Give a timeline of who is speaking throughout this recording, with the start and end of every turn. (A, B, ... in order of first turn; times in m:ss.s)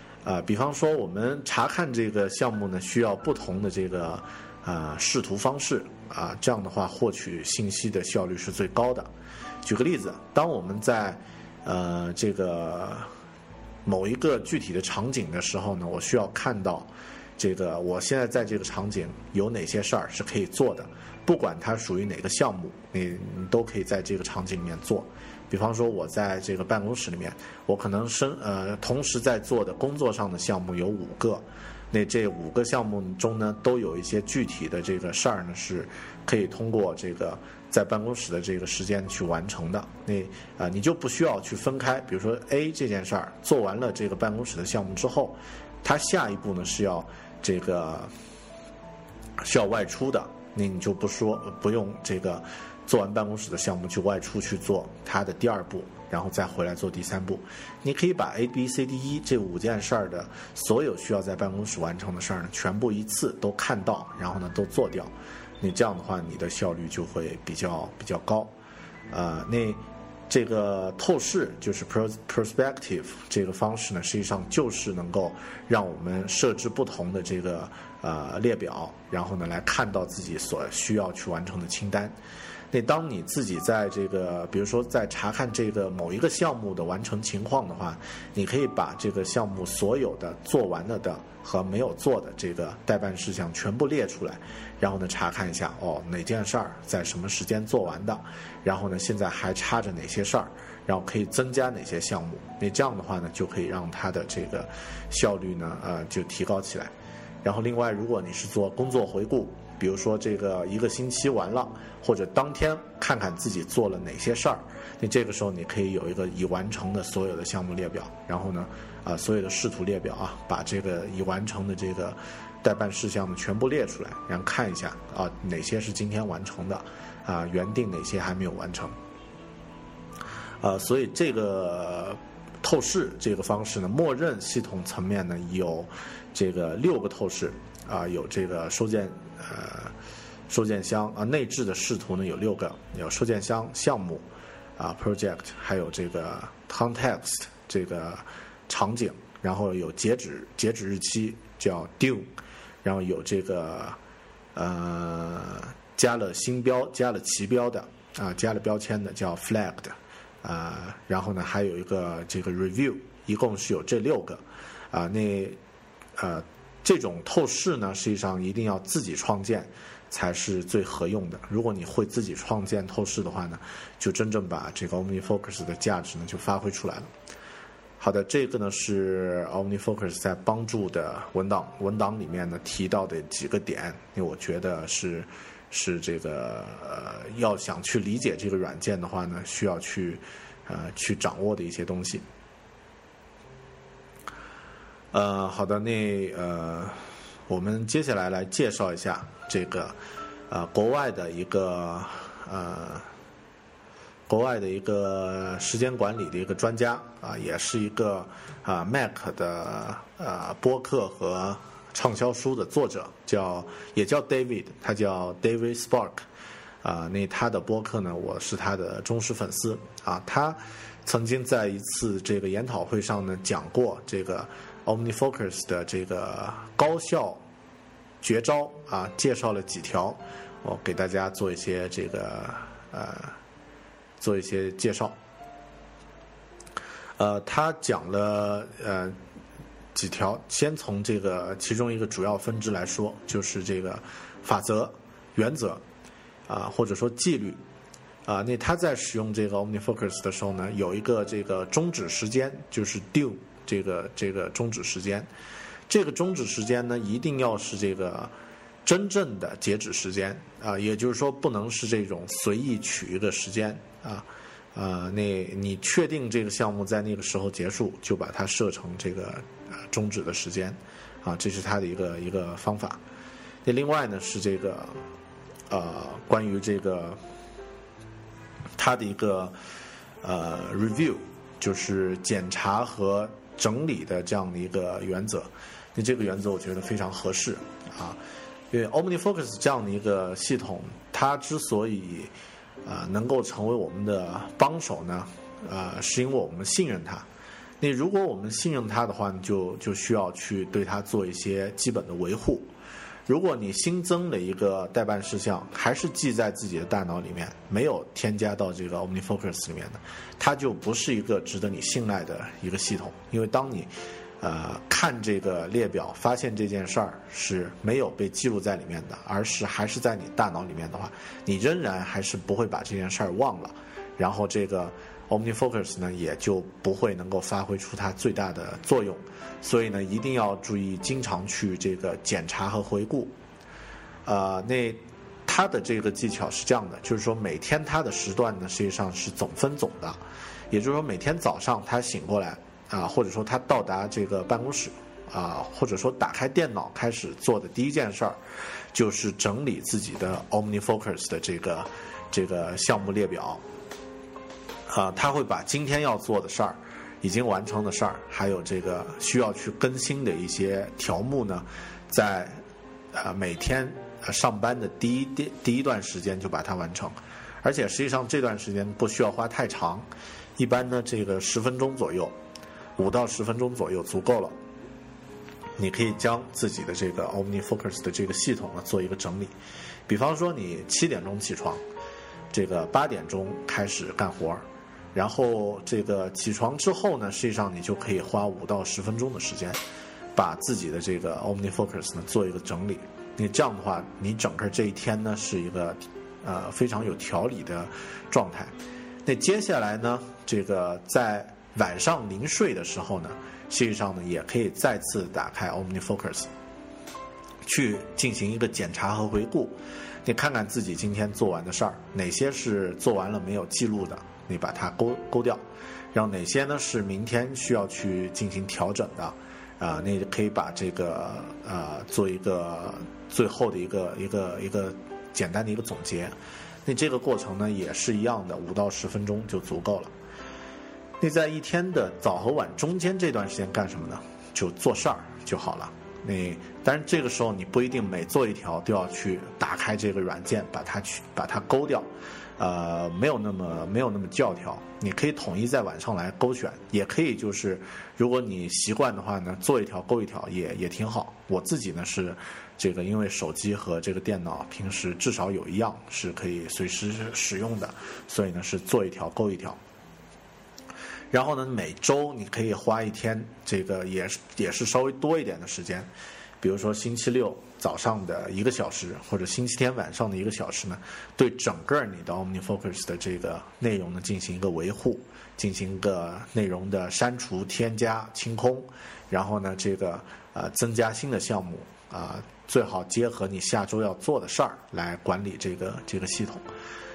0:00.2-0:09.1 A
0:09.6-0:13.1 A
0:13.8-0:48.1 A
0:49.4-1:08.5 A
1:09.1-1:22.1 A
1:22.7-1:46.9 A
1:47.4-2:08.9 A
2:10.6-2:19.9 A
2:20.5-2:24.2 A
2:24.8-2:32.3 A
2:32.8-2:34.0 A
2:34.5-2:45.6 A
2:46.2-2:57.1 A
2:58.0-3:12.2 A
3:15.1-3:20.0 A
3:20.5-3:23.1 A
3:24.3-3:36.2 A
3:36.8-3:47.4 A
3:48.2-3:53.4 A
3:54.2-3:55.2 A
3:57.2-3:59.2 A
3:59.9-4:05.8 A
4:06.5-4:07.6 A
4:08.2-4:15.3 A
4:15.9-4:18.3 A
4:18.8-4:33.0 A
4:33.6-4:35.0 A
4:35.7-4:37.2 A
4:38.8-4:39.5 A
4:40.2-4:48.2 A
4:48.7-4:52.3 A
4:52.8-4:57.2 A
4:57.8-5:02.7 A
5:03.3-5:33.3 A
5:34.2-5:48.4 A
5:48.9-5:53.6 A
5:54.9-6:02.6 A
6:03.1-6:12.3 A
6:13.0-6:14.6 A
6:15.8-6:19.5 A
6:20.1-6:21.8 A
6:22.5-6:24.6 A
6:25.1-6:29.8 A
6:30.3-6:38.7 A
6:39.2-6:46.5 A
6:47.6-6:55.6 A
6:56.1-7:06.3 A
7:06.8-7:10.1 A
7:11.2-7:39.8 A
7:41.3-7:46.1 A
7:46.6-8:06.6 A